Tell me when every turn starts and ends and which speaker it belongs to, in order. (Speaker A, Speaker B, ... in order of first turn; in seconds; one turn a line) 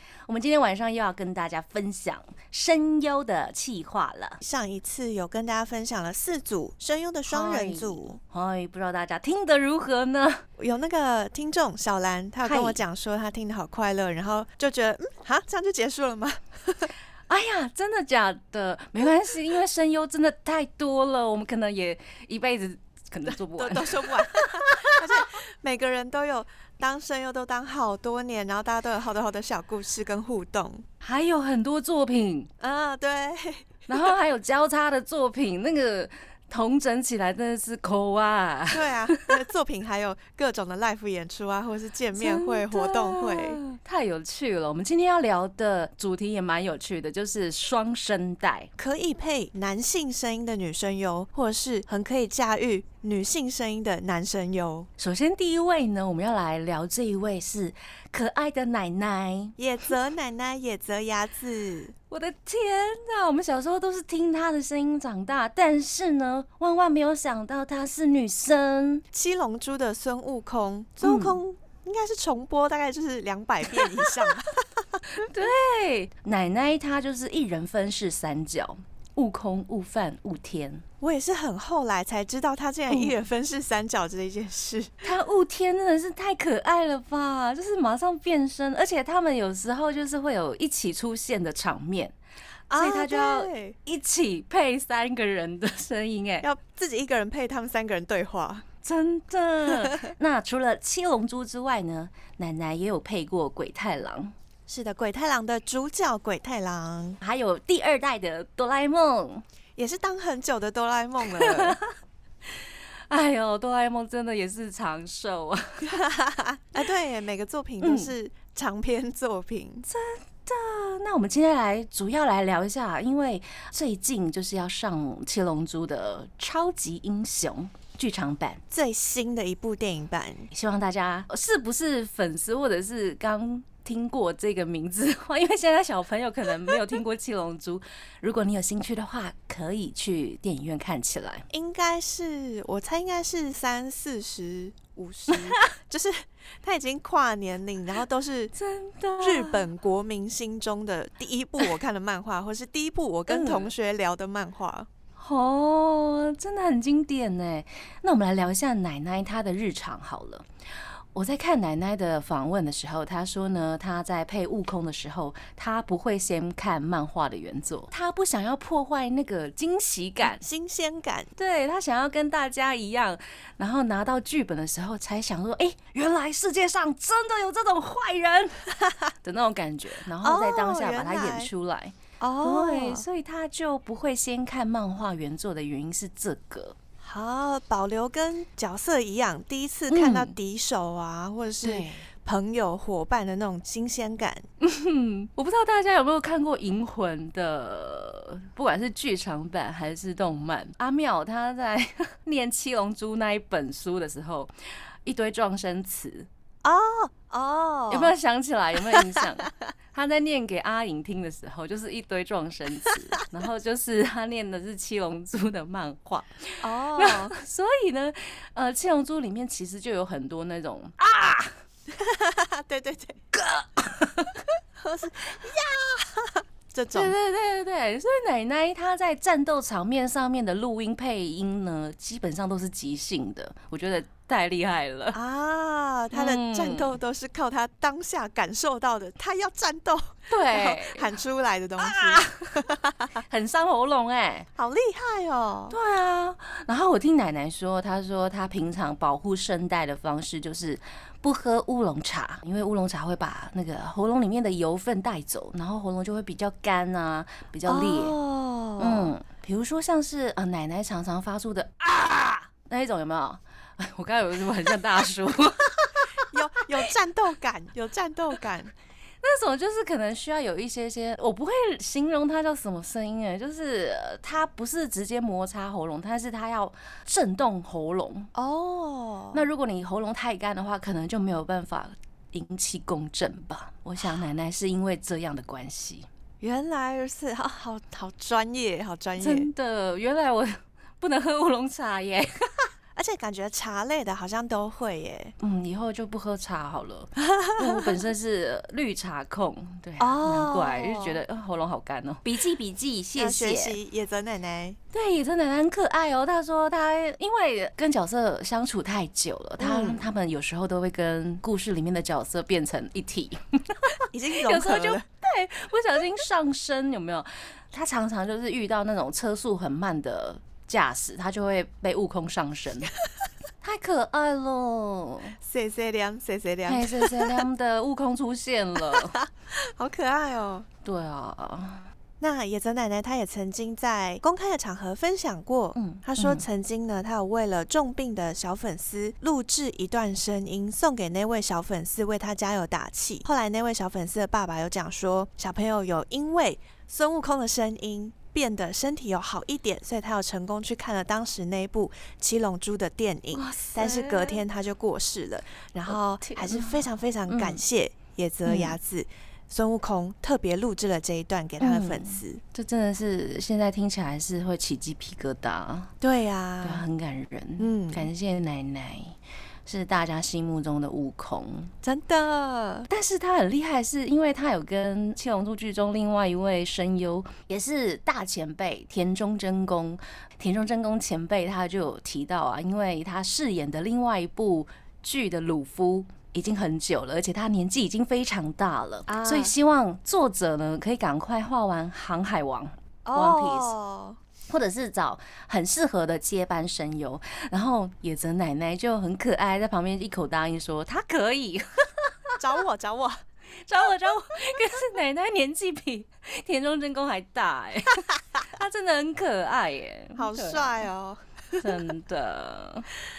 Speaker A: 0.3-4.4
Speaker B: 4.4-8.2
Speaker A: 7.3-10.4
Speaker B: 10.6-16.9
Speaker A: 12.4-12.8
Speaker A: 17.3-25.0
Speaker B: 23.6-30.9
Speaker A: 31.0-32.5
Speaker B: 32.6-33.8
Speaker A: 33.9-39.3
Speaker B: 38.7-43.6
Speaker A: 42.1-48.7
Speaker B: 48.8-54.9
Speaker A: 55.0-59.6
Speaker B: 59.6-61.9
Speaker A: 62.1-69.0
Speaker B: 69.1-75.0
Speaker A: 71.0-71.4
Speaker A: 75.1-80.8
Speaker B: 81.0-85.1
Speaker A: 82.9-83.2
Speaker A: 85.0-92.2
Speaker B: 92.7-93.8
Speaker A: 92.8-96.5
Speaker B: 96.4-98.7
Speaker A: 98.8-104.3
Speaker B: 104.7-107.2
Speaker A: 107.2-109.5
Speaker B: 109.8-111.8
Speaker A: 111.2-112.0
Speaker A: 112.6-116.0
Speaker B: 115.9-119.9
Speaker A: 117.8-118.1
Speaker A: 119.9-128.6
Speaker B: 128.7-130.5
Speaker A: 130.5-141.5
Speaker B: 141.5-148.5
Speaker A: 145.3-145.7
Speaker A: 148.6-149.7
Speaker B: 149.2-154.9
Speaker A: 153.3-153.7
Speaker A: 155.2-160.5
Speaker A: 161.1-170.4
Speaker B: 170.2-171.3
Speaker A: 171.4-178.7
Speaker B: 178.8-179.1
Speaker A: 179.2-186.8
Speaker B: 180.2-181.5
Speaker B: 182.2-183.1
Speaker B: 187.0-194.4
Speaker A: 189.9-190.3
Speaker A: 191.6-192.1
Speaker A: 194.6-204.5
Speaker A: 205.1-206.3
Speaker B: 206.6-208.2
Speaker A: 207.9-221.6
Speaker B: 208.9-209.5
Speaker B: 216.6-217.3
Speaker B: 221.9-223.2
Speaker A: 223.3-224.4
Speaker B: 224.8-227.1
Speaker A: 226.9-235.2
Speaker B: 235.1-243.2
Speaker A: 236.1-236.9
Speaker A: 240.3-241.1
Speaker A: 241.8-244.5
Speaker B: 244.6-245.8
Speaker A: 245.7-258.2
Speaker B: 257.7-259.1
Speaker A: 258.8-266.3
Speaker B: 266.3-268.7
Speaker A: 269.2-278.3
Speaker B: 278.4-279.4
Speaker A: 279.3-286.1
Speaker B: 286.4-289.5
Speaker A: 289.2-292.7
Speaker B: 292.9-295.3
Speaker A: 295.4-303.8
Speaker B: 297.2-297.9
Speaker B: 300.0-301.2
Speaker B: 303.2-304.8
Speaker A: 304.9-322.9
Speaker B: 309.6-310.1
Speaker B: 314.1-315.0
Speaker A: 323.6-325.4
Speaker B: 325.4-327.4
Speaker A: 326.7-329.2
Speaker B: 328.8-330.7
Speaker A: 330.8-331.9
Speaker B: 332.2-362.4
Speaker A: 335.8-336.4
Speaker A: 353.3-354.4
Speaker A: 355.9-357.6
Speaker A: 358.5-358.8
Speaker A: 361.6-365.9
Speaker B: 366.0-366.9
Speaker A: 366.6-371.7
Speaker B: 367.6-368.1
Speaker B: 371.8-372.9
Speaker A: 372.9-393.8
Speaker B: 389.1-389.5
Speaker B: 393.1-394.2
Speaker A: 394.5-402.4
Speaker B: 402.4-403.2
Speaker A: 403.6-410.9
Speaker B: 410.2-411.8
Speaker A: 411.6-412.9